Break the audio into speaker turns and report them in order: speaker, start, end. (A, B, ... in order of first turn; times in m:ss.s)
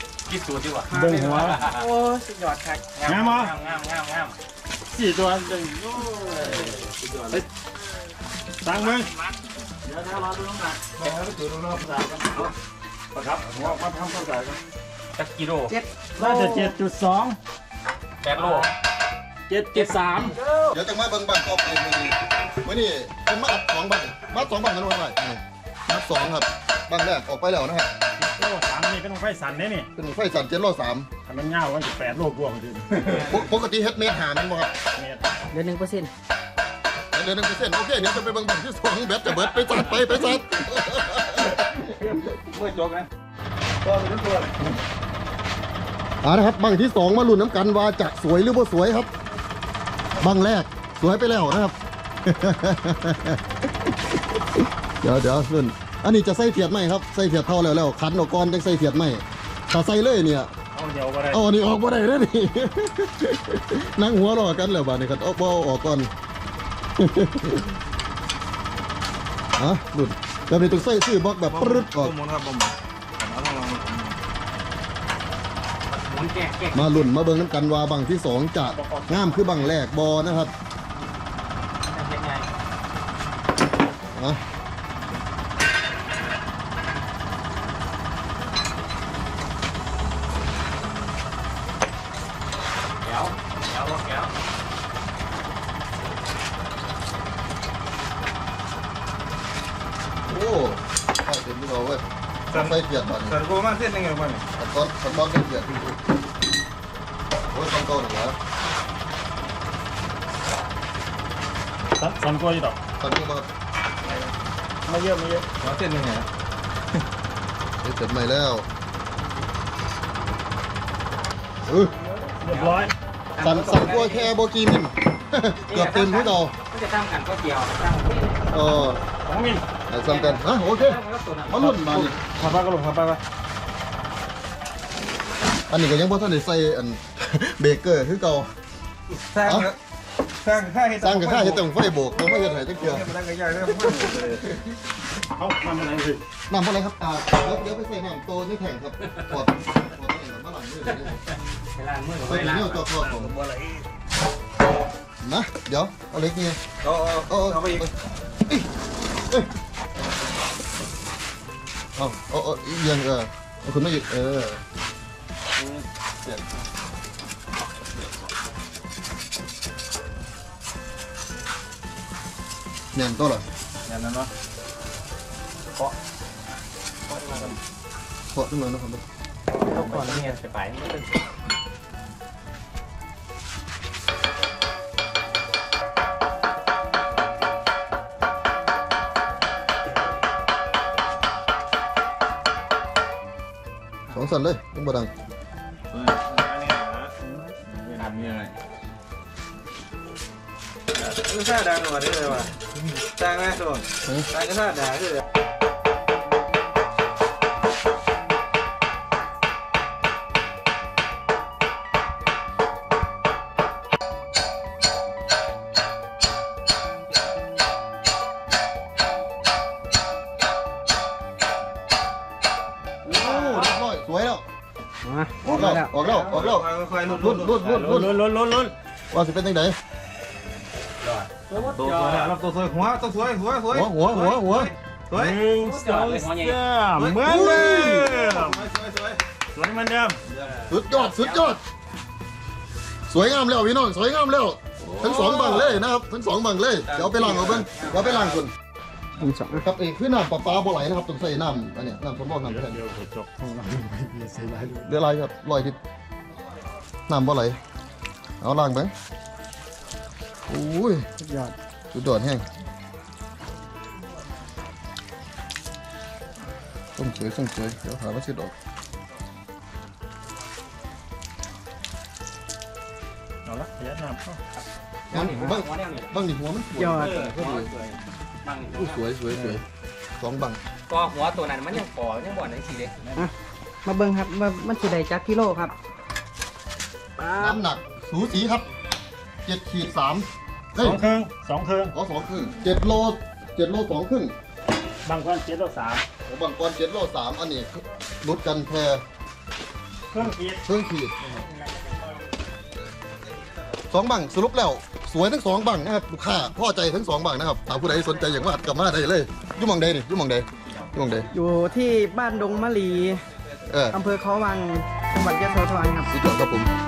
0:00.2-0:01.9 A
0:00.9-0:01.6 B
0:00.9-0:02.8 C
0:02.9-0:04.4 A
0:03.0-0:03.5 B
0:04.9-0:06.9 B
0:06.6-0:07.4 D
0:08.6-0:09.1 B
0:09.8-0:10.9 B
0:11.0-0:12.4 D
0:11.8-0:12.5 B
0:13.1-0:14.6 B
0:15.1-0:15.7 A
0:15.7-0:16.7 C
0:16.2-0:17.4 B
0:18.2-0:18.7 A
0:18.3-0:18.7 B
0:19.5-0:20.4 B
0:19.7-0:20.8 A
0:20.7-0:27.9 E
0:28.2-0:29.9 B
0:30.0-0:31.1 E
0:31.2-0:33.3 B
0:33.0-0:33.5 A
0:33.1-0:34.7 E
0:35.0-0:35.3 B
0:35.5-0:36.1 C
0:37.1-0:41.7 E
0:39.4-0:39.9 A
0:41.7-0:43.1 A
0:43.9-0:44.3 B
0:46.2-0:49.1 E
0:50.2-0:53.9 E
0:54.6-1:00.5 E
1:00.7-1:01.4 B
1:01.3-1:06.1 E
1:07.0-1:07.7 E
1:09.6-1:12.1 E
1:11.5-1:14.2 D
1:15.9-1:17.1 A
1:16.7-1:20.5 E
1:18.6-1:19.5 B
1:21.8-1:22.5 A
1:24.1-1:24.4 E
1:33.0-1:34.3 A
1:40.3-1:43.4 E
1:42.5-1:44.4 D
1:44.6-1:45.9 E
1:47.5-1:48.4 E
1:52.0-1:52.8 B
1:53.0-1:53.5 E
1:54.8-1:55.4 B
1:55.6-1:56.3 D
1:57.8-1:58.7 E
2:01.7-2:01.9 E
2:02.4-2:02.9 B
2:02.5-2:04.3 A
2:03.4-2:06.5 E
2:05.6-2:08.6 A
2:08.5-2:09.0 E
2:09.2-2:09.6 B
2:09.9-2:12.2 E
2:10.0-2:11.9 A
2:11.6-2:13.2 B
2:15.7-2:18.5 E
2:19.3-2:19.8 D
2:19.4-2:19.7 E
2:20.4-2:21.6 D
2:21.0-2:23.1 E
2:22.7-2:24.6 D
2:25.2-2:26.2 B
2:26.5-2:31.2 E
2:30.9-2:32.9 A
2:32.2-2:33.3 E
2:33.0-2:33.8 B
2:35.2-2:36.6 E
2:36.8-2:37.8 D
2:37.3-2:37.9 E
2:42.0-2:44.6 E
2:45.6-2:46.4 D
2:52.9-2:53.4 E
2:53.8-2:54.3 D
2:57.1-2:57.6 A
2:58.3-2:59.0 E
2:59.5-3:01.2 A
2:59.6-3:00.4 C
3:14.1-3:15.1 E
3:15.9-3:17.1 D
3:17.3-3:18.4 B
3:17.9-3:18.5 D
3:21.0-3:25.2 D
3:43.0-3:44.4 E
3:43.2-3:43.7 A
3:45.0-3:46.0 C
3:45.4-3:48.1 E
3:46.1-3:47.7 D
3:47.6-3:48.7 B
3:49.1-3:49.8 E
3:51.0-3:52.3 A
3:51.7-3:55.4 D
3:53.7-3:54.7 E
3:55.1-3:58.7 B
3:55.5-3:56.6 A
3:57.0-3:59.2 D
3:57.2-3:58.2 E
3:59.5-4:00.2 B
4:00.4-4:01.6 A
4:00.7-4:01.6 E
4:03.1-4:08.5 E
4:06.9-4:08.4 A
4:07.3-4:07.6 D
4:09.2-4:09.6 C
4:09.6-4:12.8 E
4:12.4-4:14.9 B
4:14.8-4:15.8 E
4:17.1-4:17.6 E
4:18.4-4:18.9 E
4:20.5-4:21.1 E
4:21.2-4:21.5 C
4:21.9-4:22.4 E
4:27.0-4:28.5 E
4:33.4-4:34.4 B
4:34.5-4:36.1 A
4:35.1-4:37.7 E
4:36.7-4:37.2 C
4:36.9-4:39.0 A
4:38.7-4:39.6 E
4:40.2-4:40.6 E
4:40.9-4:43.1 A
4:43.8-4:45.7 C
4:47.2-4:47.6 C
4:47.4-4:48.6 E
4:49.4-4:51.0 E
4:50.8-4:51.9 B
4:51.9-4:54.3 E
4:55.0-4:56.0 B
4:56.2-4:59.0 E
5:00.1-5:00.6 B
5:00.6-5:01.1 E
5:01.3-5:02.0 B
5:03.9-5:11.3 E
5:11.3-5:13.2 C
5:13.6-5:14.0 E
5:13.9-5:16.1 C
5:16.1-5:16.7 E